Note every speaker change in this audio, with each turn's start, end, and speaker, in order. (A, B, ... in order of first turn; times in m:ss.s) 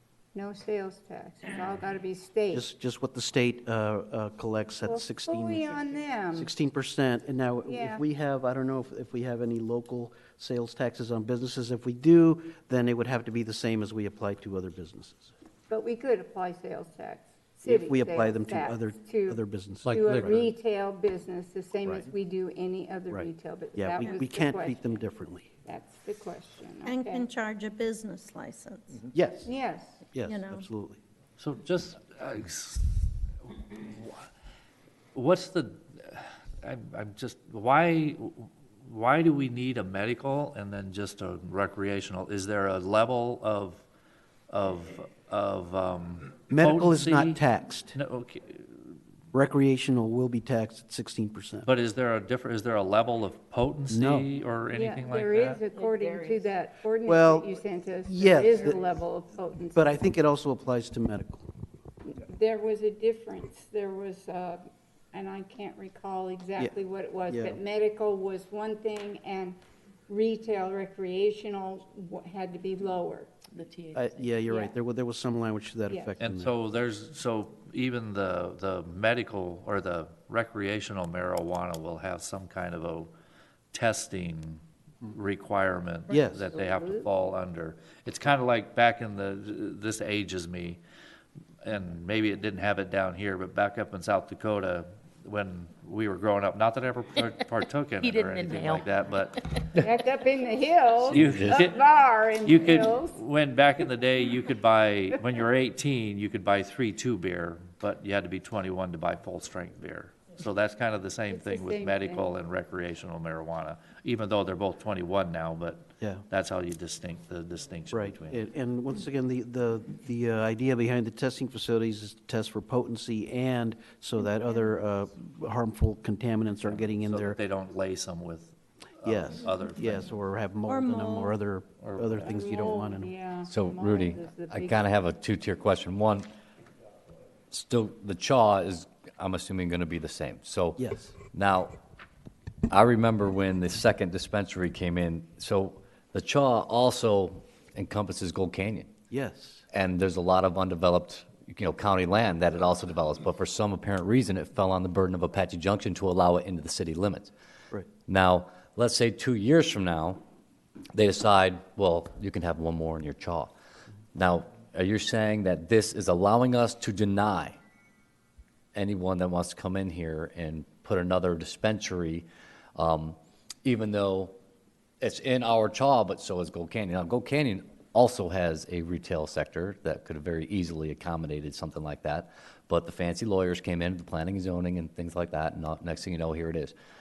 0:00.3-0:02.7 A
0:02.5-0:05.8 B
0:04.9-0:06.5 A
0:06.3-0:15.3 B
0:07.7-0:08.0 A
0:15.7-0:25.0 A
0:17.6-0:20.4 B
0:23.1-0:25.5 B
0:25.6-0:27.3 A
0:26.8-0:29.0 C
0:29.1-0:29.5 B
0:29.4-0:30.0 A
0:30.1-0:31.0 B
0:30.2-0:30.7 C
0:31.4-0:32.9 D
0:33.4-0:34.3 D
0:35.2-0:43.8 D
0:44.5-0:47.4 D
0:46.5-0:47.9 B
0:47.9-0:48.8 D
0:49.3-0:51.7 B
0:51.6-0:55.6 D
0:53.9-0:54.3 B
0:54.7-1:00.0 A
0:55.8-0:56.5 E
0:57.1-0:58.9 B
0:59.8-1:01.5 B
1:02.0-1:13.3 A
1:07.3-1:07.6 B
1:13.5-1:14.4 E
1:14.0-1:16.5 B
1:14.5-1:14.8 A
1:16.2-1:23.1 D
1:23.7-1:30.8 D
1:26.1-1:26.5 B
1:26.5-1:27.1 A
1:31.6-1:39.5 D
1:38.0-1:38.9 E
1:39.8-1:43.2 A
1:41.0-1:58.4 D
1:51.3-1:52.3 A
1:57.9-2:07.4 B
2:06.7-2:10.1 D
2:09.0-2:13.1 B
2:10.7-2:11.4 C
2:11.8-2:12.3 D
2:12.2-2:14.9 A
2:13.5-2:16.3 F
2:17.5-2:20.8 F
2:20.8-2:21.2 B
2:21.3-2:21.7 F
2:22.7-2:28.9 F
2:29.1-2:29.6 B
2:29.7-2:37.3 F
2:38.1-2:40.2 F
2:40.9-2:43.5 F
2:44.2-2:47.6 F
2:48.8-2:54.4 F
2:55.0-3:06.7 F